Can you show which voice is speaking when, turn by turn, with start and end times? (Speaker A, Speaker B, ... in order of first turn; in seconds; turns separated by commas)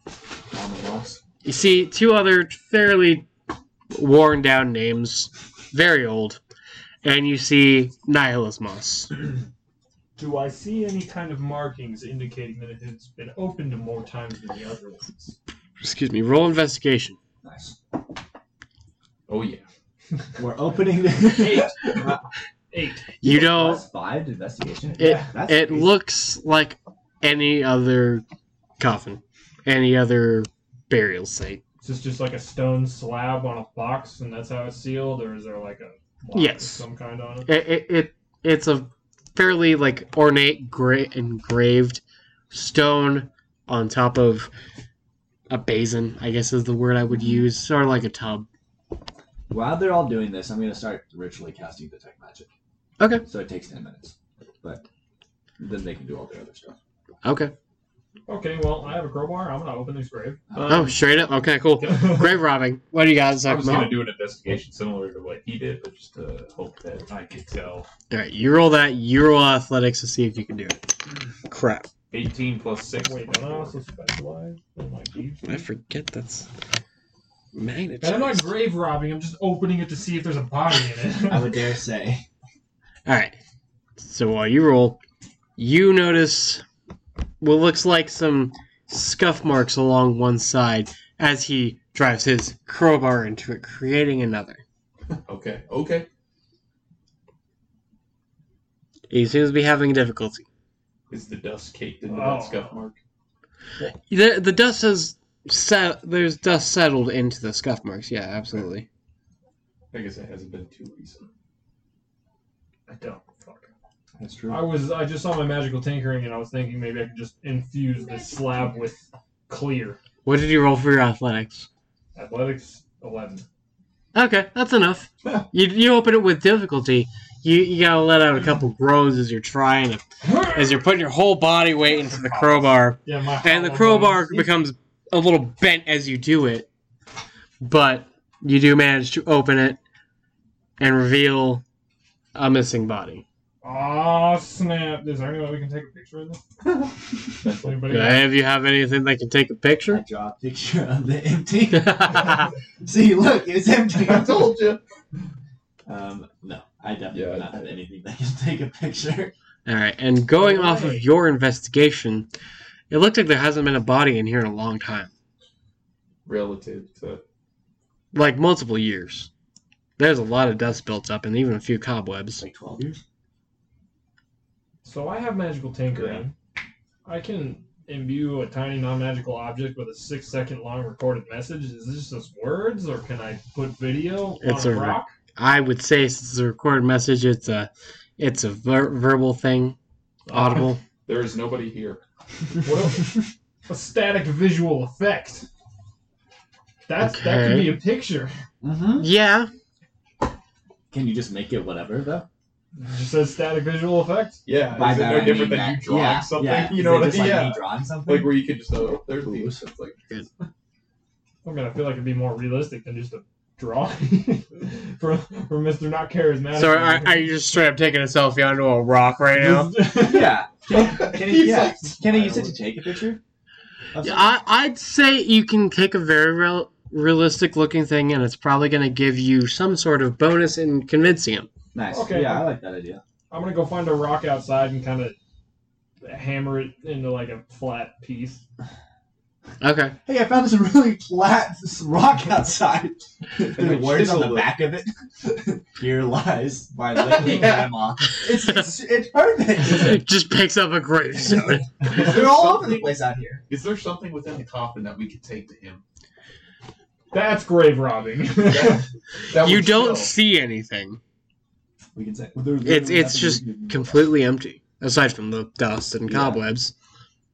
Speaker A: 0.5-1.2, Speaker B: 1.4-3.3, Speaker B: 3.9-6.4, Speaker B: 7.0-9.1, Speaker C: 10.2-15.3, Speaker B: 15.8-17.1, Speaker A: 17.4-17.8, Speaker D: 19.3-19.6, Speaker A: 20.4-22.2, Speaker C: 21.2-23.1, Speaker B: 23.2-23.8, Speaker A: 23.2-25.9, Speaker B: 25.0-28.2, Speaker B: 28.8-31.6, Speaker C: 31.8-37.5, Speaker B: 36.3-36.8, Speaker B: 37.5-44.5, Speaker B: 45.5-48.5, Speaker A: 49.5-52.5, Speaker B: 53.0-53.2, Speaker A: 53.2-54.8, Speaker A: 55.6-56.8, Speaker B: 57.2-57.5, Speaker C: 58.3-60.4, Speaker A: 60.5-60.9, Speaker D: 60.5-61.1, Speaker B: 60.7-64.0, Speaker D: 61.8-62.3, Speaker D: 63.4-67.9, Speaker B: 68.1-70.8, Speaker B: 71.5-71.9, Speaker D: 72.1-73.8, Speaker C: 73.0-75.6, Speaker B: 75.4-76.5, Speaker B: 77.5-78.5, Speaker C: 78.0-81.5, Speaker A: 81.3-82.2, Speaker B: 83.0-83.3, Speaker B: 84.0-85.0, Speaker B: 85.6-86.6, Speaker B: 87.4-94.6, Speaker D: 95.2-96.1, Speaker B: 99.1-100.4, Speaker D: 101.1-103.0, Speaker C: 102.1-102.7, Speaker B: 104.1-108.8, Speaker D: 109.9-111.3, Speaker C: 112.9-113.7, Speaker D: 114.2-114.6, Speaker C: 114.5-120.0, Speaker B: 120.2-121.7, Speaker C: 122.1-123.4, Speaker B: 124.1-136.7, Speaker C: 130.2-130.8, Speaker C: 131.8-134.6, Speaker B: 137.6-139.8, Speaker B: 140.8-141.6, Speaker B: 142.3-143.2, Speaker C: 143.6-146.4, Speaker D: 147.4-147.9, Speaker C: 147.6-148.3, Speaker B: 147.9-150.0, Speaker A: 149.9-154.6, Speaker B: 151.7-152.4, Speaker D: 154.0-154.8, Speaker A: 155.9-159.3, Speaker D: 157.1-157.6, Speaker B: 159.7-162.3, Speaker C: 160.4-161.1, Speaker B: 162.9-165.1, Speaker D: 166.2-167.2, Speaker B: 168.1-169.3, Speaker B: 170.0-172.4, Speaker A: 172.4-173.0, Speaker C: 174.8-176.3, Speaker C: 177.0-185.1, Speaker B: 184.4-189.8, Speaker C: 190.3-190.7, Speaker B: 190.3-190.8, Speaker D: 191.0-192.0, Speaker D: 192.6-193.0, Speaker C: 192.6-195.5, Speaker C: 196.9-198.3, Speaker B: 197.0-197.8, Speaker A: 198.6-199.1, Speaker B: 199.0-199.5, Speaker A: 200.9-202.3, Speaker C: 202.8-204.4, Speaker D: 204.4-210.1, Speaker A: 204.7-208.3, Speaker A: 209.2-209.6, Speaker C: 211.4-217.3, Speaker B: 216.5-219.7, Speaker C: 219.3-220.4, Speaker A: 219.9-223.2, Speaker D: 220.7-222.6, Speaker A: 223.9-224.3, Speaker B: 224.0-231.5, Speaker A: 231.7-233.0, Speaker C: 231.9-232.6, Speaker C: 233.3-235.2, Speaker C: 236.0-238.4, Speaker B: 239.6-239.9, Speaker A: 240.1-250.0, Speaker D: 243.4-244.5, Speaker D: 246.9-247.7, Speaker B: 248.4-248.7, Speaker B: 249.6-251.7, Speaker A: 251.8-253.4, Speaker D: 251.8-252.9, Speaker D: 253.5-255.8, Speaker C: 257.1-258.8, Speaker D: 258.5-260.1, Speaker B: 259.4-261.0, Speaker A: 261.9-264.1, Speaker B: 262.6-266.7, Speaker A: 266.1-266.4